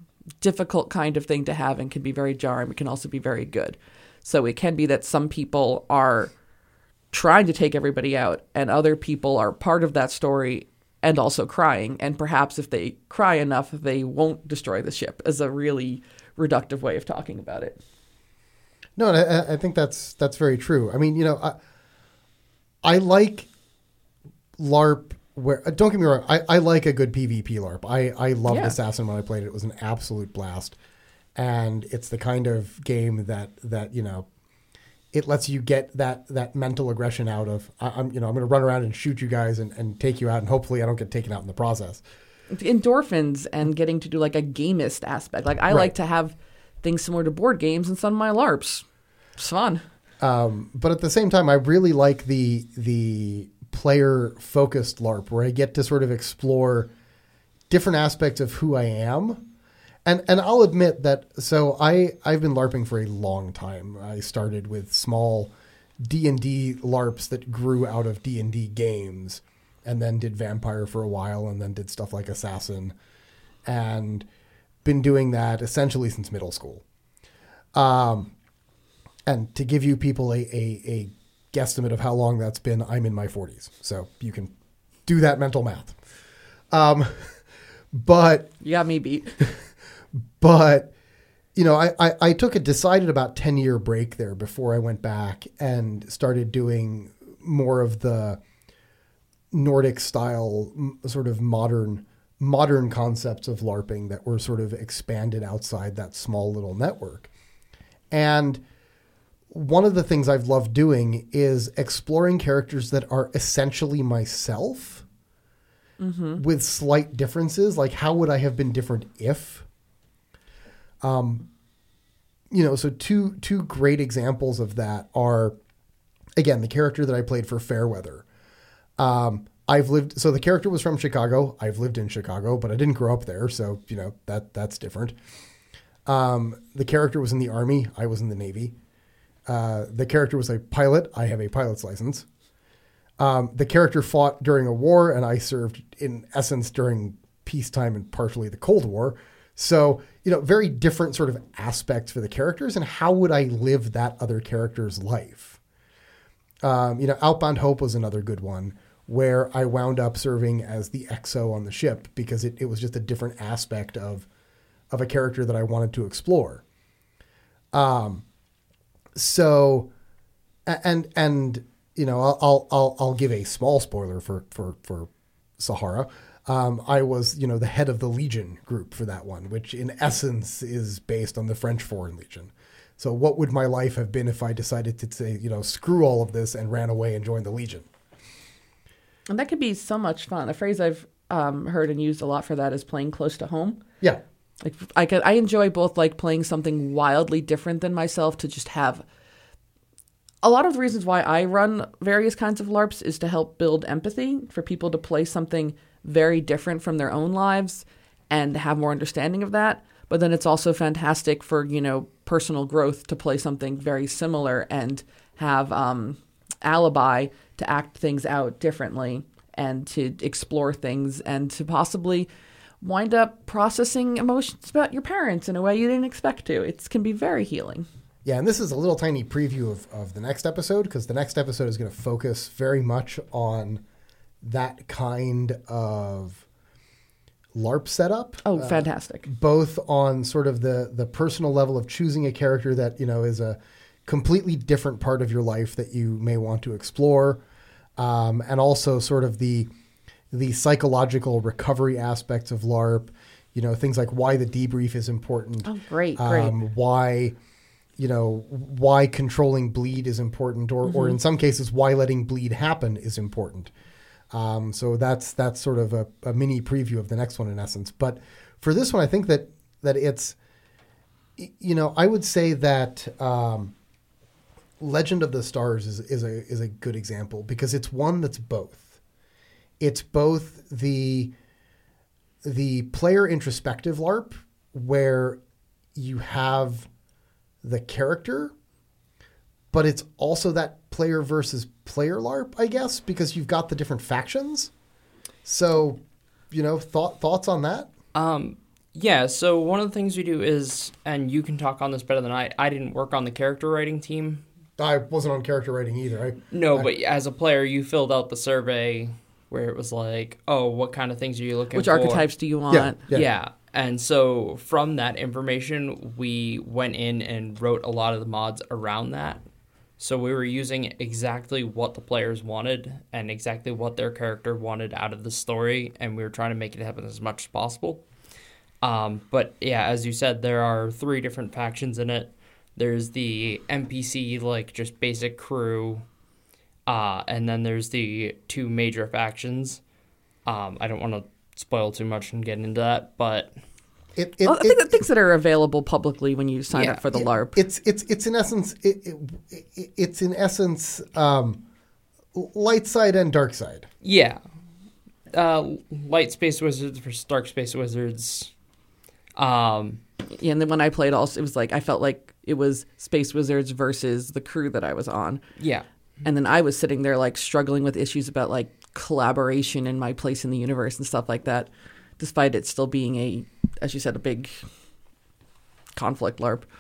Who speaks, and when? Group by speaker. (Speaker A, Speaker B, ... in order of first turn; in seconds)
Speaker A: 0.4-6.3, 7.1-17.8, 28.5-28.8, 42.5-48.9, 49.4-49.8, 88.6-89.4, 116.0-116.4, 189.3-193.8, 194.6-199.1, 200.4-222.3, 222.8-227.9, 238.4-239.3, 255.6-256.6, 260.9-261.2, 311.7-313.0, 344.4-347.6, 360.4-365.4, 366.2-374.7, 375.9-376.7
Speaker B: 19.0-21.6, 22.8-23.5, 24.6-30.8, 31.4-34.3, 35.1-42.0, 45.7-45.9, 50.2-56.9, 57.7-59.5, 60.0-73.0, 73.7-74.3, 74.8-76.8, 77.7-78.3, 79.3-84.5, 85.1-86.0, 86.7-87.4, 87.9-88.5, 90.4-90.9, 91.5-98.4, 99.5-107.3, 108.1-108.6, 109.5-115.1, 116.4-119.7, 121.0-121.5, 122.5-125.6, 126.4-128.3, 129.0-135.2, 136.1-138.8, 139.5-142.3, 143.2-155.6, 156.6-164.3, 164.9-166.6, 167.7-168.2, 169.2-169.9, 170.7-187.9, 228.2-233.8, 234.4-236.4, 237.6-247.4, 248.0-249.7, 250.3-257.4, 258.0-263.7, 264.3-270.4, 271.4-273.7, 274.8-279.0, 279.8-281.3, 282.4-285.4, 285.9-286.9, 287.6-288.5, 289.7-294.7, 295.4-297.9, 304.8-306.9, 312.7-313.3, 344.2-345.1, 347.1-351.6, 352.4-353.9
Speaker C: 298.1-304.4, 306.5-312.2, 313.1-319.4, 320.0-328.1, 328.8-336.1, 336.9-339.8, 340.5-343.6, 346.7-347.0, 354.0-354.4, 355.3-358.5, 359.4-360.0, 365.6-365.9